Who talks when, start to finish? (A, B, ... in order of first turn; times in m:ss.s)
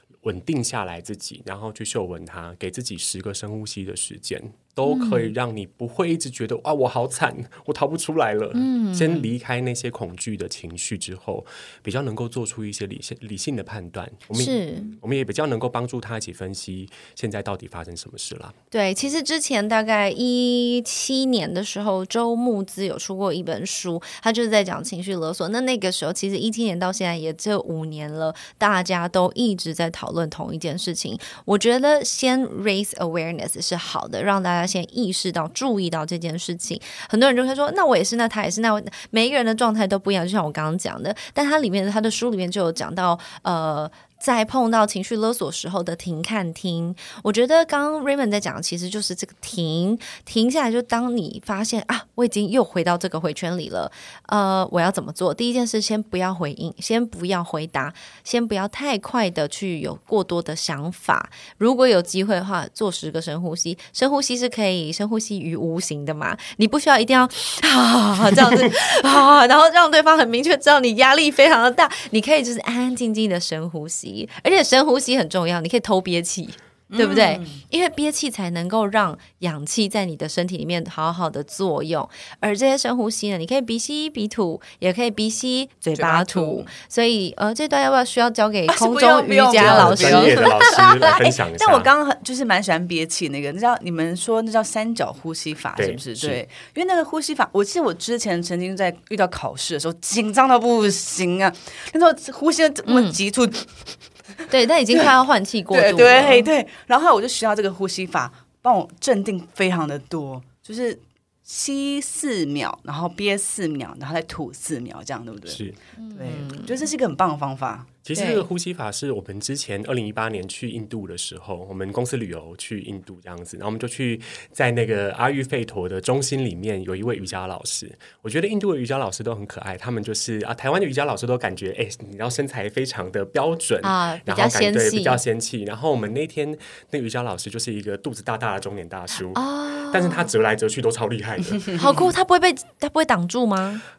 0:00.2-0:18.6 A
0:04.8-0:05.3 B
0:08.5-0:09.3 B
0:14.3-0:14.9 B
0:18.7-1:31.2 B
1:16.9-1:17.6 C
1:25.9-1:26.7 C
1:28.7-1:44.0 C
1:29.6-1:31.9 A
1:35.8-1:36.4 A
1:42.9-1:43.2 B
1:44.5-1:46.5 B
1:45.7-1:55.6 C
1:55.5-1:55.8 A
1:56.0-1:56.8 B
1:56.2-1:57.9 C
1:58.0-2:21.8 A
1:58.2-1:58.5 B
2:13.8-2:15.2 B
2:19.3-2:20.3 B
2:21.8-2:23.8 B